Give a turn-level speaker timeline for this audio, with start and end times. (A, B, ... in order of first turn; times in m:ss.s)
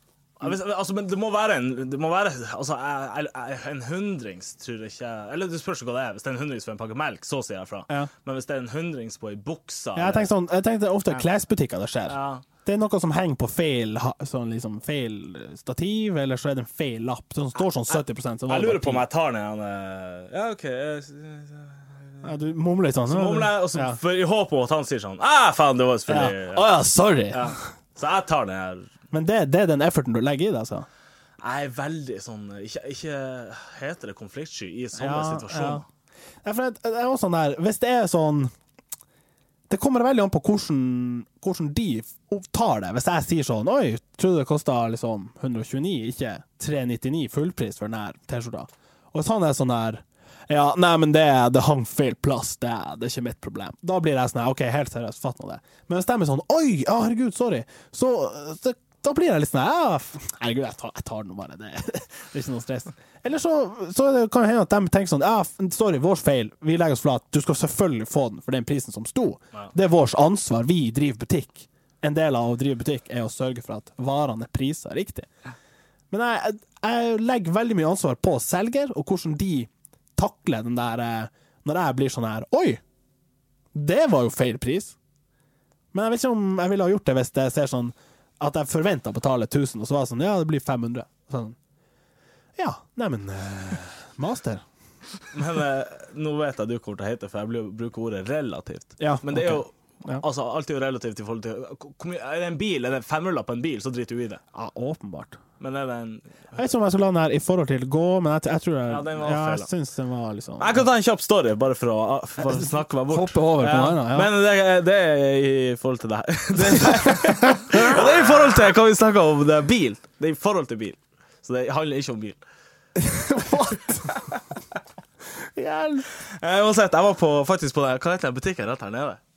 0:00.4-0:10.3 A
0:09.9-0:19.0 B
0:12.1-0:12.4 A
0:17.9-0:22.3 A
0:22.2-0:24.0 B
0:23.1-0:26.7 A
0:26.1-0:27.5 B
0:27.3-0:28.9 A
0:29.1-0:30.9 B
0:31.4-0:35.8 A
0:35.0-0:35.8 B
0:36.4-0:38.5 B
0:39.7-1:15.3 B
1:16.1-1:22.8 B
1:23.7-1:25.0 B
1:25.9-1:31.6 B
1:32.6-1:34.6 B
1:35.3-1:44.4 A
1:39.0-1:40.2 B
1:44.5-1:45.4 B
1:45.6-1:46.6 A
1:46.5-1:50.8 B
1:48.9-1:49.7 A
1:50.6-2:02.4 A
1:52.4-1:54.3 B
1:56.6-1:58.0 B
2:03.0-2:04.2 B
2:04.1-2:04.4 A
2:05.5-2:06.1 B
2:06.1-2:09.2 A